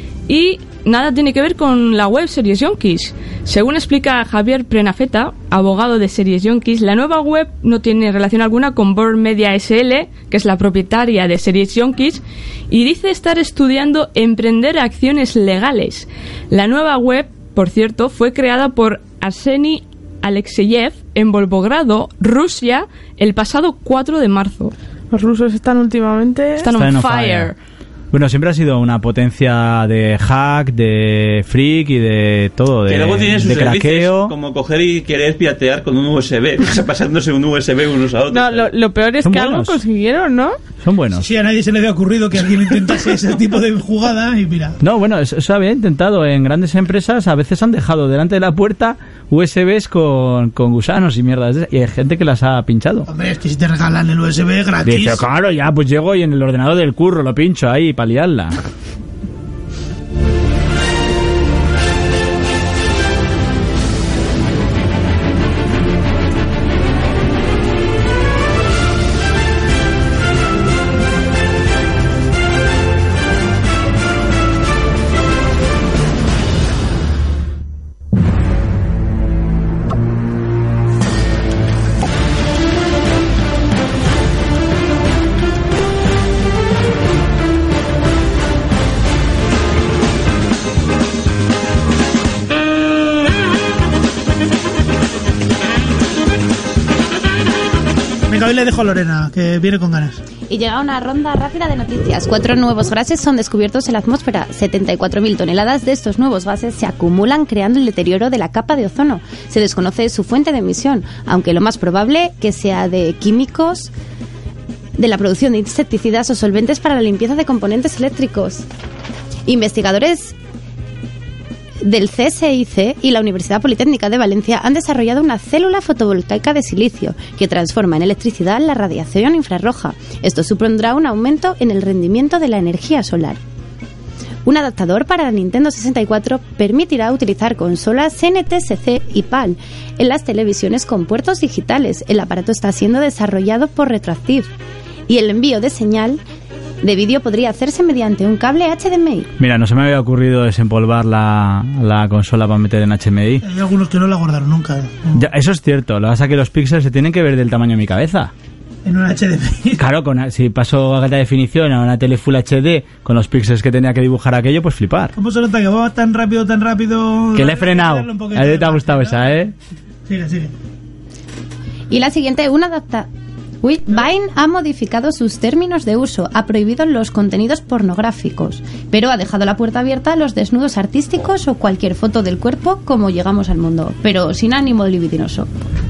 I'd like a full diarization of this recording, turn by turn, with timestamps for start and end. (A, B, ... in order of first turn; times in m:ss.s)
0:00.3-0:24.7 A
0:25.1-0:26.7 B
0:26.6-0:27.6 A
0:26.7-0:27.5 C
0:28.1-0:34.3 C
0:32.9-0:38.7 D
0:38.3-0:40.6 B
0:39.2-0:39.8 C
0:40.8-0:41.3 C
0:41.2-0:44.8 E
0:44.8-0:53.1 C
0:53.1-0:55.2 E
0:54.8-0:58.6 C
1:38.3-1:40.2 E
1:40.5-1:53.9 F
1:55.0-1:58.7 F
1:59.5-2:00.4 F
2:01.8-2:13.4 F
2:14.4-2:24.5 F
2:25.1-2:26.2 F
2:26.8-2:29.3 F
2:29.4-2:33.4 C
2:33.4-2:35.2 E
2:35.1-2:38.3 C
2:38.8-2:39.8 E
2:39.8-2:45.1 C
2:45.2-2:49.4 E
2:47.4-2:49.5 C
2:50.1-2:50.5 E
2:51.9-2:53.1 F
2:53.6-3:05.7 F